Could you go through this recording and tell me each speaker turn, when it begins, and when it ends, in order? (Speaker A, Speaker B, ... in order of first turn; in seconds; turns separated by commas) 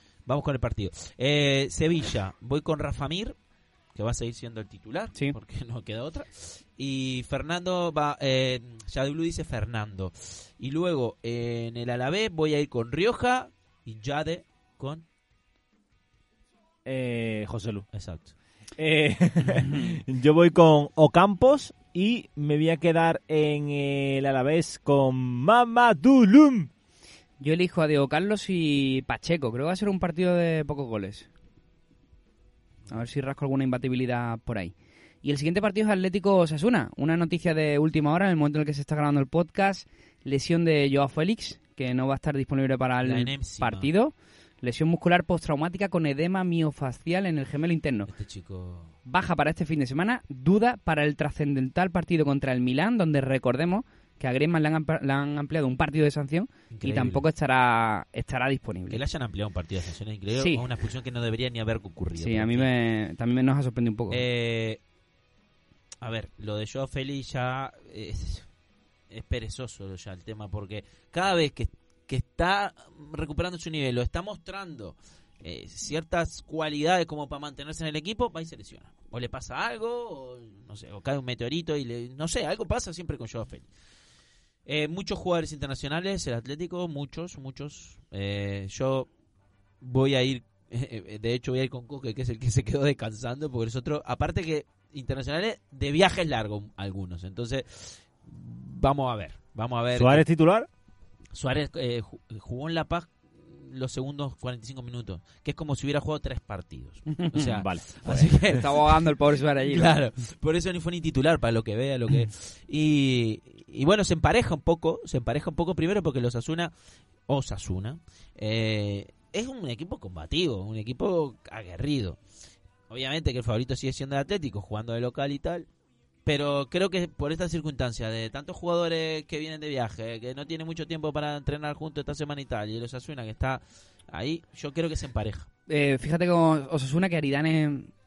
Speaker A: 0.3-3.4, Speaker A: 4.0-15.0, Speaker B: 16.9-17.9, Speaker A: 17.9-18.3, Speaker B: 18.8-26.7, Speaker C: 27.4-31.3, Speaker C: 32.9-48.1, Speaker A: 43.0-43.9, Speaker A: 48.1-48.9, Speaker C: 49.1-59.0, Speaker A: 56.7-57.2, Speaker A: 58.9-62.7, Speaker C: 60.4-60.6, Speaker C: 62.2-64.2, Speaker A: 64.1-64.8, Speaker A: 66.0-68.5, Speaker A: 69.1-83.7, Speaker A: 84.7-89.1, Speaker A: 89.8-100.2, Speaker B: 99.9-100.7, Speaker A: 101.3-109.1, Speaker C: 107.1-107.5, Speaker B: 107.4-108.4, Speaker C: 108.4-110.0, Speaker A: 109.7-116.7, Speaker A: 117.3-122.2, Speaker A: 122.9-125.7, Speaker A: 126.3-135.5, Speaker C: 135.7-137.9